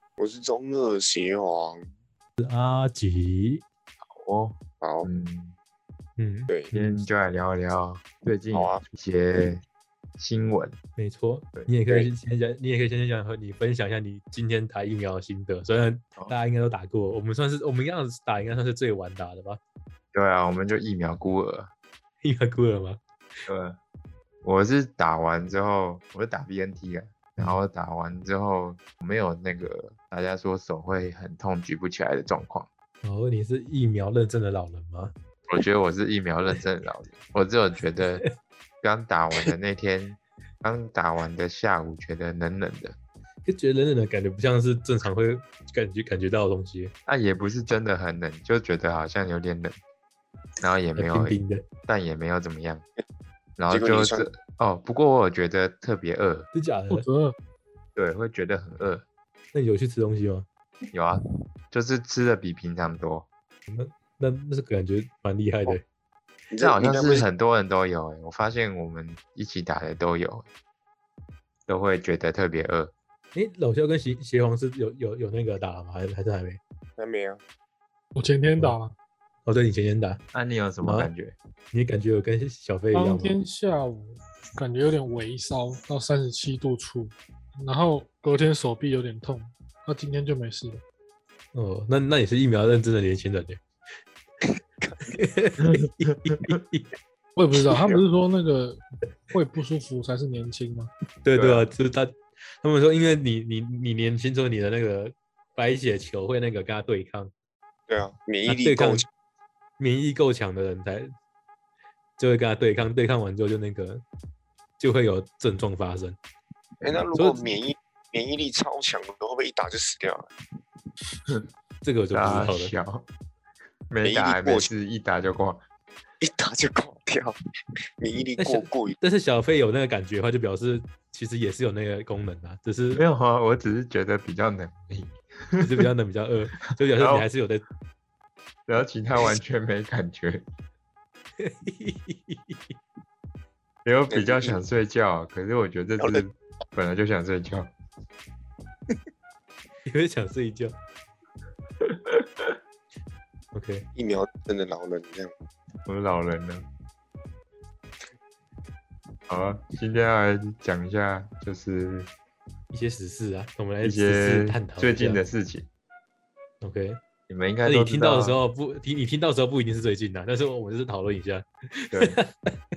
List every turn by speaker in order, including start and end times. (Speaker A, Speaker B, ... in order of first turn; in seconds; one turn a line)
Speaker A: 0.2-1.9
Speaker B: 2.4-3.6
Speaker C: 4.1-5.5
Speaker A: 4.8-5.1
Speaker B: 6.2-7.0
Speaker C: 6.7-9.6
Speaker A: 8.5-8.8
Speaker C: 10.2-10.8
Speaker B: 11.0-19.6
Speaker C: 20.1-21.7
Speaker B: 22.2-23.0
Speaker C: 23.5-23.8
Speaker C: 24.4-32.7
Speaker B: 33.0-35.1
Speaker C: 35.5-38.2
Speaker C: 38.8-43.0
Speaker B: 43.5-46.9
Speaker C: 47.1-49.8
Speaker C: 50.6-52.8
Speaker B: 51.0-51.7
Speaker C: 53.6-56.5
Speaker A: 53.7-54.3
Speaker B: 56.5-57.0
Speaker D: 56.9-57.4
Speaker C: 58.0-59.0
Speaker B: 59.5-60.5
Speaker C: 60.9-63.3
Speaker B: 63.7-65.8
Speaker A: 66.5-67.2
Speaker C: 66.6-70.5
Speaker C: 71.7-72.9
Speaker B: 73.3-76.6
Speaker A: 77.0-77.4
Speaker D: 78.2-78.9
Speaker B: 79.5-80.2
Speaker C: 80.3-81.3
Speaker B: 80.8-81.1
Speaker B: 81.7-83.3
Speaker D: 82.9-90.8
Speaker B: 91.5-93.6
Speaker A: 94.8-95.1
Speaker B: 95.1-96.9
Speaker C: 95.6-96.5
Speaker D: 97.3-100.9
Speaker A: 97.7-98.0
Speaker B: 101.2-107.3
Speaker C: 101.3-101.7
Speaker A: 107.9-109.1
Speaker B: 108.5-109.0
Speaker B: 109.8-111.1
Speaker B: 112.2-114.0
Speaker B: 114.8-116.2
Speaker A: 116.8-120.3
Speaker B: 117.2-117.4
Speaker B: 121.8-122.7
Speaker C: 122.1-123.1
Speaker C: 123.9-125.6
Speaker A: 124.0-124.7
Speaker A: 126.2-127.3
Speaker A: 128.0-129.0
Speaker B: 128.4-133.0
Speaker C: 132.9-135.7
Speaker B: 135.6-137.6
Speaker C: 136.9-137.3
Speaker C: 138.7-140.5
Speaker B: 141.4-142.7
Speaker C: 143.8-147.7
Speaker A: 144.1-144.6
Speaker A: 146.0-146.2
Speaker B: 149.9-150.8
Speaker C: 151.8-152.5
Speaker B: 153.5-153.9
Speaker A: 153.9-155.3
Speaker C: 155.9-156.7
Speaker C: 159.3-162.1
Speaker B: 162.7-165.2
Speaker C: 163.8-165.7
Speaker B: 166.6-167.0
Speaker C: 167.3-168.4
Speaker B: 167.6-172.5
Speaker C: 171.9-172.2